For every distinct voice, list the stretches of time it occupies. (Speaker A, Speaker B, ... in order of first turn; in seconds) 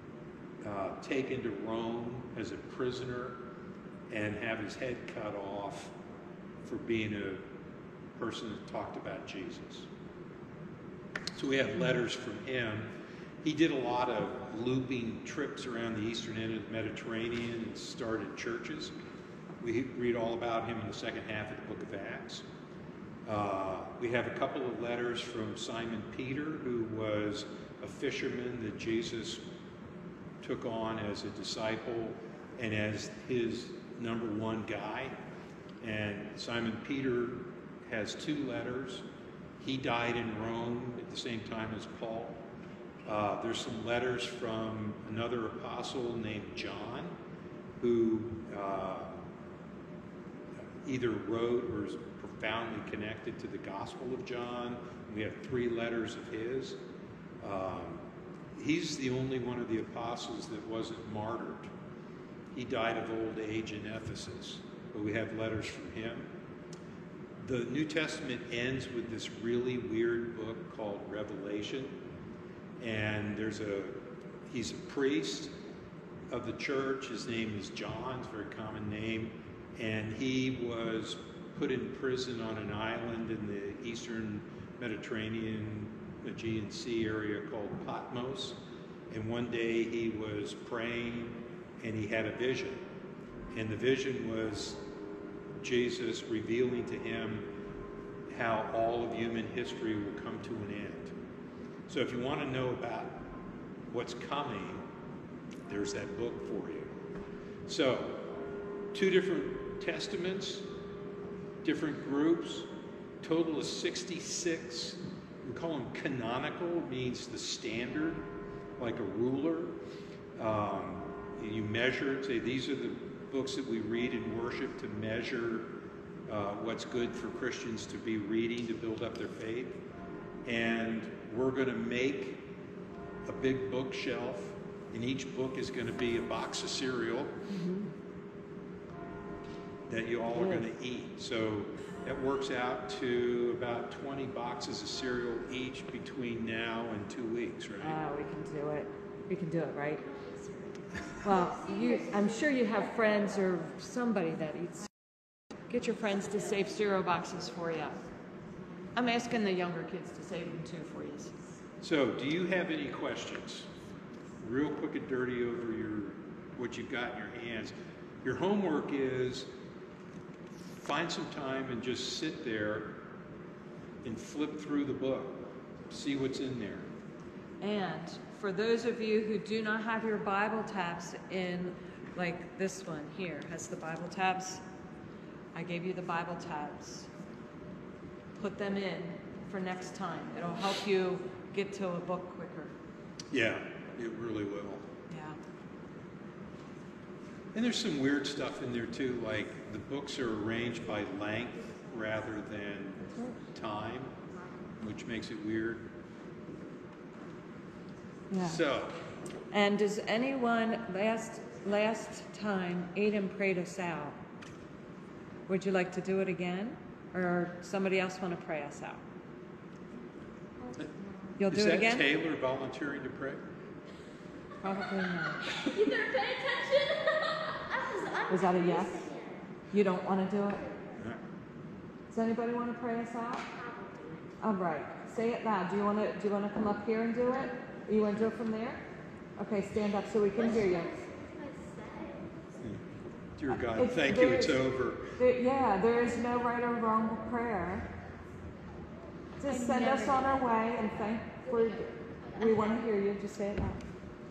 Speaker A: 0.6-3.4, 4.1-5.9, 6.6-7.5, 8.2-9.9, 11.3-12.9, 13.4-18.9, 19.6-22.4, 23.3-29.5, 30.4-35.2, 35.8-39.0, 39.6-42.4, 43.1-47.1, 47.8-49.2, 50.8-56.8, 57.4-61.7, 62.5-66.3, 67.4-72.0, 72.8-75.5, 76.3-88.6, 89.1-92.8, 93.5-94.8, 95.6-97.5, 98.3-101.1, 101.9-103.3, 103.9-104.9, 105.7-106.9, 107.7-108.3, 108.9-110.7, 111.6-112.7, 113.2-118.3, 118.8-119.8, 120.4-125.7, 126.3-129.8, 130.5-132.4, 133.3-137.4, 139.9-148.0, 161.8-163.7, 164.4-169.5, 170.8-173.0, 174.0-176.9, 193.3-194.9, 197.5-204.2, 204.8-205.9, 208.4-209.0, 221.5-223.4, 243.4-245.2
Speaker B: 137.5-137.9, 147.8-150.0, 151.2-154.9, 155.7-158.0, 158.9-161.3, 177.6-184.6, 185.5-187.1, 188.3-192.7, 195.1-195.4, 203.1-203.4, 208.3-208.6, 209.5-214.2, 215.5-219.0, 221.4-222.1, 224.6-225.5, 228.3-229.1, 229.7-230.7, 232.1-233.5, 234.4-238.8, 239.4-240.9, 243.6-247.9, 249.4-253.9
Speaker C: 150.0-153.2, 220.6-221.4, 225.6-229.5, 233.5-234.4, 240.3-242.6, 249.4-250.7, 251.5-252.8